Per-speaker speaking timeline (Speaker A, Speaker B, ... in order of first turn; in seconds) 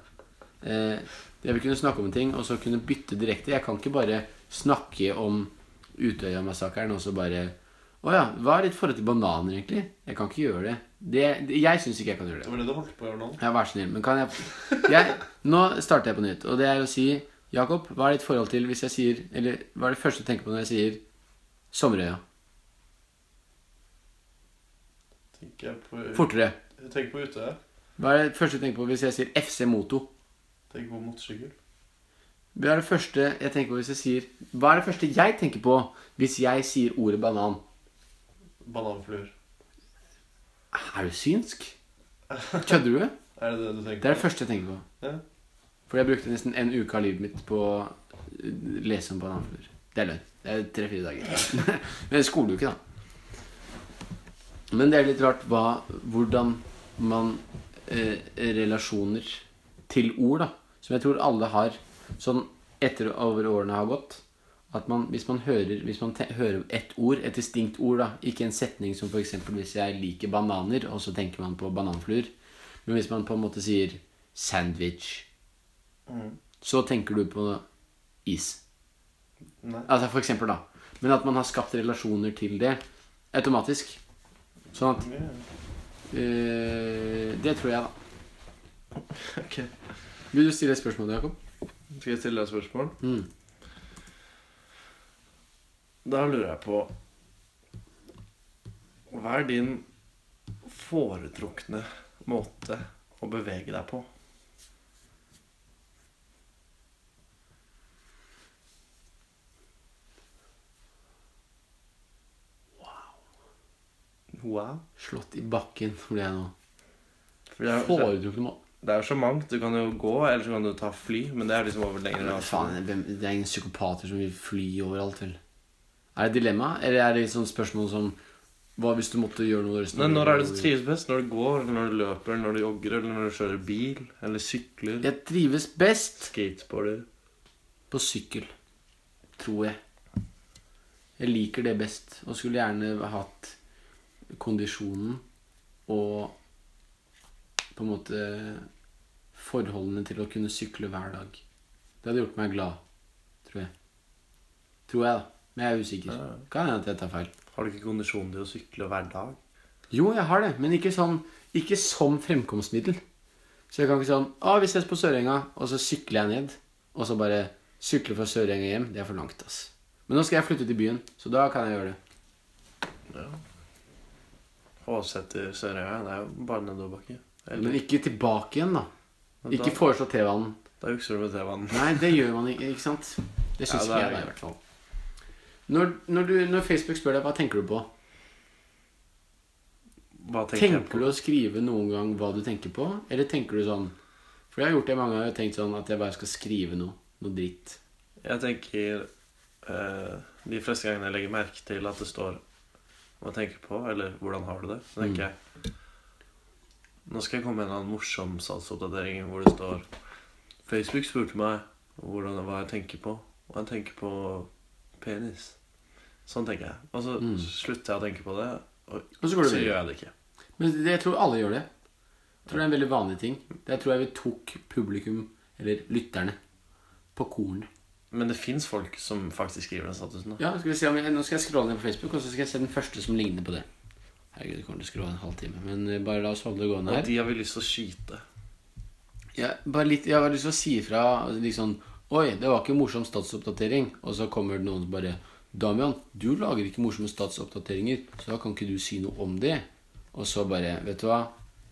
Speaker A: 0.6-12.5, 13.4-21.0, 21.7-22.2, 26.1-26.6, 28.0-30.1, 32.5-37.6, 40.7-41.7, 42.6-43.2, 44.0-44.8, 45.9-52.8, 54.7-72.3, 72.8-75.3, 76.6-77.6, 78.2-78.6, 79.9-82.8, 83.3-84.0, 84.7-85.0, 86.1-87.9, 90.3-91.3, 93.0-93.3, 115.0-116.5, 117.7-118.6, 122.2-125.4, 126.1-128.2, 128.8-130.7, 135.0-136.3, 137.9-138.5, 139.4-139.8, 141.2-143.6, 144.3-145.2, 145.9-146.3, 147.7-148.7, 149.3-151.4, 152.0-152.8, 153.4-153.7, 154.9-157.3, 159.9-163.0, 163.7-172.0, 177.5-178.9, 179.5-180.6, 181.7-184.6, 185.7-187.9, 190.5-193.9, 194.5-197.8, 217.2-217.5, 219.2-219.8, 220.6-221.7, 222.5-226.4, 227.1-227.7, 230.4-233.7, 234.3-237.1, 239.3-251.3
Speaker B: 12.4-13.4, 25.4-27.6, 30.7-31.5, 38.6-39.3, 42.3-42.7, 43.4-44.3, 76.1-76.4, 79.6-79.9, 85.0-85.4, 89.1-89.7, 91.9-93.0, 96.0-96.9, 99.1-99.8, 100.6-104.1, 114.3-114.8, 117.5-118.1, 118.8-122.8, 129.9-135.1, 136.2-137.1, 156.1-156.4, 157.5-159.4, 173.1-173.4, 174.8-177.8, 179.4-179.8, 180.8-182.2, 183.7-184.3, 190.2-191.2, 198.2-199.1, 199.6-202.4, 203.2-205.3, 207.1-209.8, 210.7-214.5, 215.0-215.5, 216.2-220.1, 228.1-230.4, 236.8-238.2